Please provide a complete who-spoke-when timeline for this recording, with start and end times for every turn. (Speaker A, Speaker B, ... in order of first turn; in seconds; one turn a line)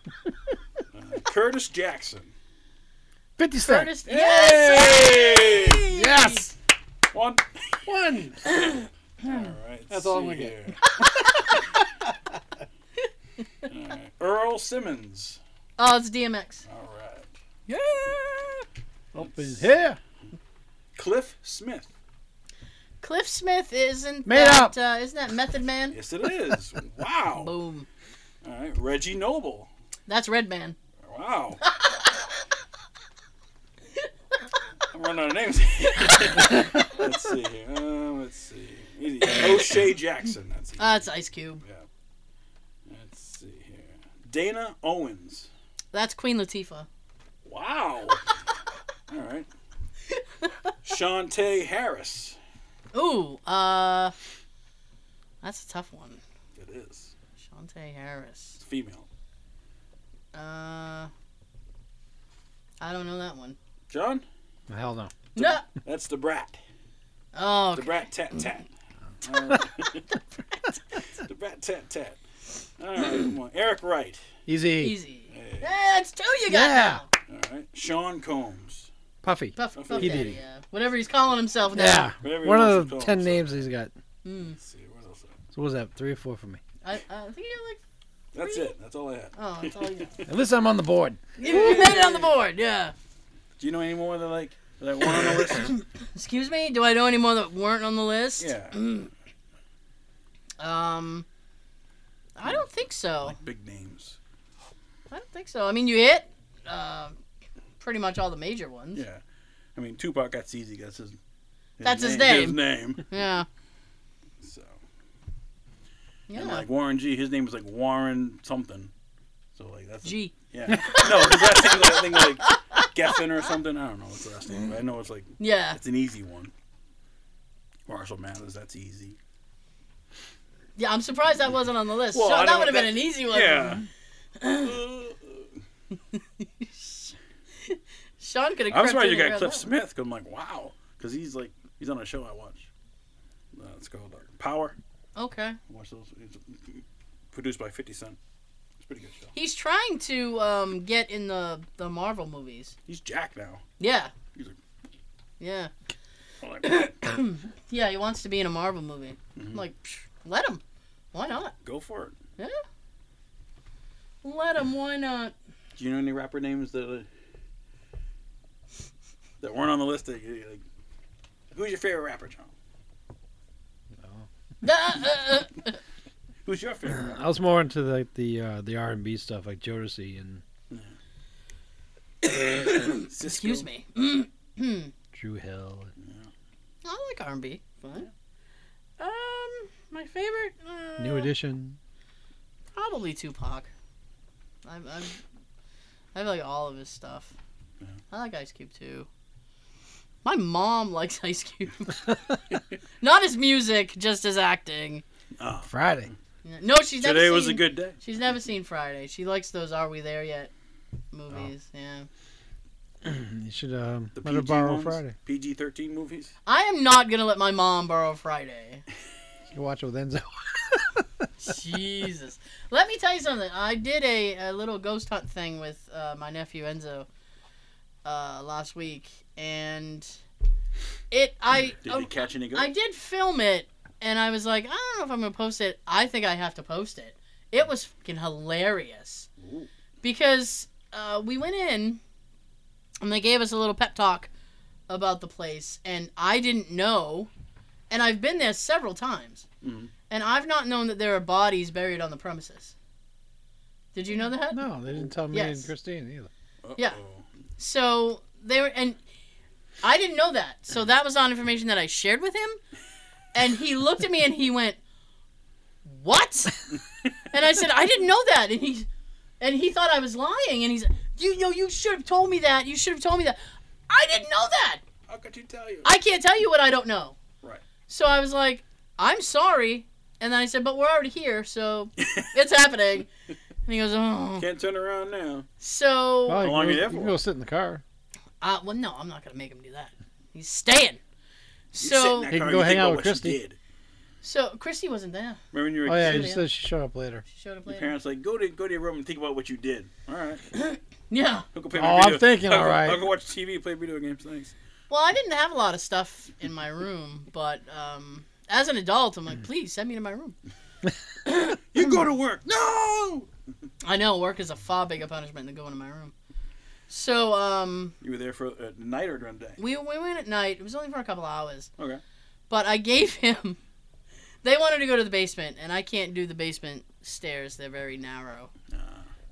Speaker A: 0.9-2.3
Speaker B: 3.4-4.4
Speaker C: 3.6-6.5
Speaker A: 4.1-5.9
Speaker B: 5.9-6.5
Speaker A: 7.1-7.8
Speaker B: 7.8-8.4
Speaker C: 8.5-8.9
Speaker A: 9.2-10.8
Speaker B: 9.9-11.6
Speaker C: 10.9-11.6
Speaker A: 13.6-15.4
Speaker C: 15.8-16.6
Speaker A: 16.7-17.3
Speaker C: 17.7-18.6
Speaker B: 19.1-20.0
Speaker A: 19.2-19.7
Speaker A: 21.0-21.9
Speaker C: 23.0-26.0
Speaker B: 24.2-24.7
Speaker A: 25.9-27.5
Speaker C: 27.3-27.9
Speaker A: 28.4-29.7
Speaker C: 30.1-30.8
Speaker A: 31.0-31.6
Speaker C: 31.6-32.1
Speaker A: 34.9-41.0
Speaker C: 36.0-36.9
Speaker C: 40.8-41.6
Speaker A: 42.9-45.5
Speaker C: 45.9-46.9
Speaker A: 47.5-48.2
Speaker A: 49.1-49.5
Speaker C: 50.4-50.7
Speaker A: 50.8-52.4
Speaker C: 52.9-54.1
Speaker C: 55.4-56.2
Speaker A: 56.6-57.1
Speaker C: 57.4-58.6
Speaker A: 58.6-59.1
Speaker C: 60.3-61.1
Speaker C: 62.8-63.6
Speaker A: 63.9-64.2
Speaker B: 64.7-65.1
Speaker C: 65.4-65.7
Speaker A: 65.4-66.6
Speaker C: 67.3-68.1
Speaker A: 67.8-68.7
Speaker A: 69.2-70.1
Speaker A: 71.0-72.2
Speaker A: 72.8-74.2
Speaker B: 74.5-74.9
Speaker C: 74.8-77.1
Speaker A: 75.3-75.7
Speaker B: 76.5-77.0
Speaker A: 77.3-78.9
Speaker B: 79.2-80.4
Speaker C: 79.5-82.1
Speaker A: 79.8-80.4
Speaker B: 81.7-83.9
Speaker A: 82.2-83.6
Speaker C: 84.2-84.6
Speaker A: 84.5-85.4
Speaker B: 85.5-86.6
Speaker C: 86.8-87.8
Speaker A: 88.3-90.1
Speaker C: 88.4-88.7
Speaker C: 89.3-90.2
Speaker B: 90.3-91.3
Speaker C: 91.4-92.9
Speaker A: 91.4-92.3
Speaker A: 93.6-95.8
Speaker C: 96.1-99.1
Speaker A: 98.4-98.8
Speaker C: 100.6-101.3
Speaker C: 102.4-103.4
Speaker A: 103.2-104.2
Speaker C: 105.1-107.2
Speaker C: 107.8-109.0
Speaker A: 109.0-109.2
Speaker A: 109.8-111.2
Speaker A: 111.8-113.1
Speaker C: 111.8-113.5
Speaker A: 114.4-114.8
Speaker C: 116.3-116.7
Speaker A: 116.3-118.9
Speaker A: 119.5-126.5
Speaker C: 120.0-122.9
Speaker C: 125.4-125.8
Speaker A: 127.9-129.2
Speaker C: 130.8-133.8
Speaker A: 132.1-133.8
Speaker C: 134.4-134.8
Speaker A: 134.6-135.5
Speaker C: 136.1-139.7
Speaker A: 138.7-142.7
Speaker A: 143.5-144.8
Speaker C: 145.2-145.6
Speaker A: 145.7-148.2
Speaker A: 148.8-149.3
Speaker C: 149.3-152.8
Speaker A: 152.9-153.6
Speaker C: 153.8-154.1
Speaker C: 155.4-155.7
Speaker A: 156.4-156.9
Speaker C: 156.6-160.6
Speaker A: 159.3-159.6
Speaker C: 161.1-161.6
Speaker A: 161.6-162.2
Speaker C: 164.2-165.3
Speaker A: 165.8-167.1
Speaker A: 169.4-170.6
Speaker A: 171.5-172.5
Speaker B: 174.0-174.3
Speaker C: 174.6-175.8
Speaker A: 176.4-177.2
Speaker B: 176.9-180.4
Speaker C: 182.2-184.9
Speaker A: 182.9-183.7
Speaker B: 185.1-185.9
Speaker A: 186.0-186.3
Speaker C: 186.8-188.1
Speaker C: 189.0-191.3
Speaker B: 191.0-191.8
Speaker C: 192.8-193.7
Speaker C: 194.6-195.2
Speaker C: 196.1-197.3
Speaker C: 198.1-199.1
Speaker C: 200.2-202.2
Speaker C: 203.0-205.0
Speaker A: 205.4-206.1
Speaker B: 205.6-206.1
Speaker C: 206.4-210.5
Speaker A: 207.0-208.0
Speaker C: 211.1-212.1
Speaker B: 213.0-215.1
Speaker A: 214.2-216.3
Speaker C: 216.5-218.8
Speaker B: 219.5-221.3
Speaker C: 221.4-227.1
Speaker C: 228.1-230.1
Speaker C: 231.1-239.3
Speaker A: 231.8-232.7
Speaker A: 239.4-239.7
Speaker C: 240.0-242.0
Speaker C: 243.0-244.3
Speaker C: 244.9-247.3
Speaker C: 247.9-249.4
Speaker A: 249.6-249.9
Speaker C: 250.1-252.8
Speaker C: 253.9-254.7
Speaker B: 254.5-256.3
Speaker C: 255.3-255.7
Speaker A: 256.6-257.2
Speaker C: 257.6-259.0
Speaker C: 259.8-262.6
Speaker C: 263.3-264.8
Speaker C: 265.9-266.8
Speaker C: 267.3-268.9
Speaker C: 269.4-273.4
Speaker C: 273.9-274.8
Speaker A: 275.1-275.9
Speaker C: 275.8-277.2
Speaker C: 277.9-283.1
Speaker A: 282.0-282.3
Speaker C: 283.7-284.5
Speaker A: 284.4-285.5
Speaker C: 285.6-286.5
Speaker B: 286.3-287.8
Speaker A: 286.4-287.2
Speaker C: 288.4-291.0
Speaker C: 291.7-292.3
Speaker A: 291.8-293.6
Speaker B: 292.3-293.4
Speaker C: 294.2-295.4
Speaker A: 295.5-296.3
Speaker B: 295.9-297.2
Speaker C: 295.9-296.4
Speaker C: 297.3-297.9
Speaker A: 297.7-300.4
Speaker C: 300.5-301.5
Speaker A: 301.5-304.5
Speaker B: 301.7-303.1
Speaker C: 304.9-310.4
Speaker C: 311.3-311.6
Speaker A: 311.7-313.3
Speaker C: 313.8-316.1
Speaker C: 316.9-317.9
Speaker A: 318.0-319.6
Speaker C: 319.6-321.7
Speaker C: 322.5-323.6
Speaker C: 324.4-328.5
Speaker A: 328.7-329.1